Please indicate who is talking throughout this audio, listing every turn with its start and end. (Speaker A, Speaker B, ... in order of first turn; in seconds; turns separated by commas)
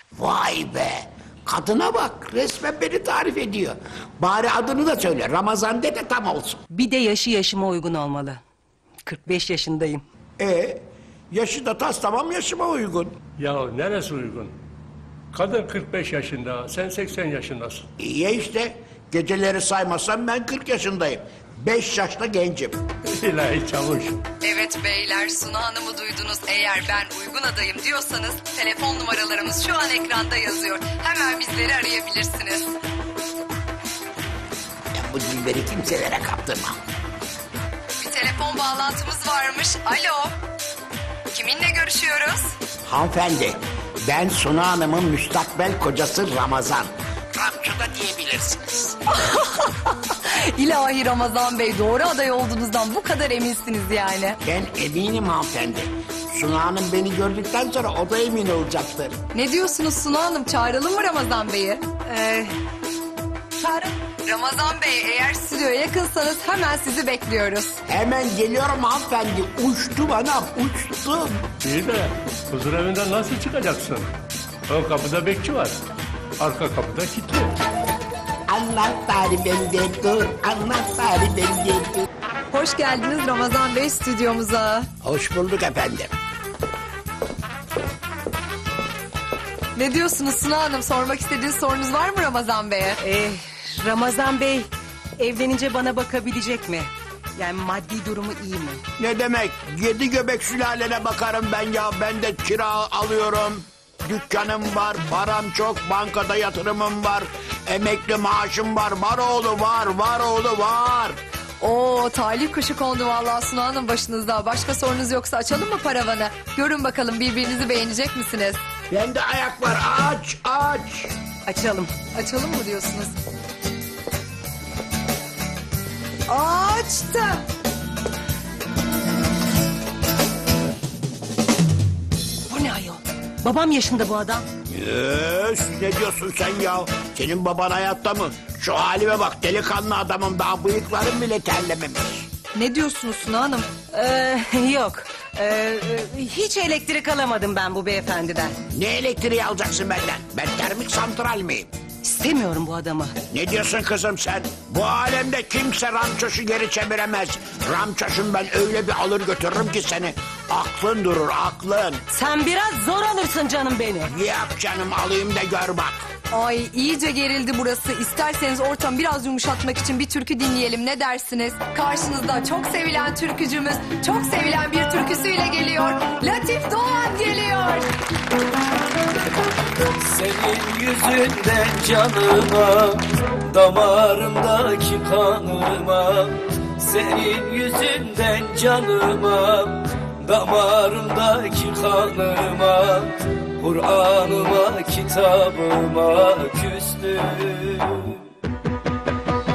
Speaker A: 0.1-6.6, Speaker B: 6.7-8.4, Speaker B: 9.1-10.0, Speaker A: 10.4-13.2, Speaker C: 13.4-14.5, Speaker C: 15.3-17.8, Speaker A: 18.0-22.8, Speaker C: 23.1-24.2, Speaker D: 24.4-32.7, Speaker A: 34.9-36.8, Speaker D: 38.0-40.3, Speaker D: 41.3-42.5, Speaker A: 42.9-49.0, Speaker D: 49.1-54.4, Speaker A: 54.4-59.2, Speaker D: 59.3-62.0, Speaker B: 62.1-62.5, Speaker B: 63.6-63.9, Speaker D: 64.1-67.8, Speaker A: 67.9-71.4, Speaker C: 71.6-74.1, Speaker C: 74.7-75.8, Speaker C: 76.4-77.5, Speaker A: 78.5-82.0, Speaker D: 82.5-84.9, Speaker A: 85.0-86.1, Speaker D: 89.8-93.0, Speaker B: 93.0-98.8, Speaker A: 99.0-111.2, Speaker D: 111.6-118.6, Speaker A: 118.9-121.1, Speaker B: 121.5-121.9, Speaker D: 122.0-123.1, Speaker D: 126.3-127.4, Speaker B: 132.5-134.4, Speaker A: 134.7-142.3, Speaker D: 142.5-143.7, Speaker B: 143.9-148.5, Speaker A: 148.7-151.7, Speaker B: 152.0-153.1, Speaker A: 153.3-162.0, Speaker B: 162.1-164.1, Speaker A: 164.1-166.0, Speaker D: 166.3-177.9, Speaker E: 179.8-198.2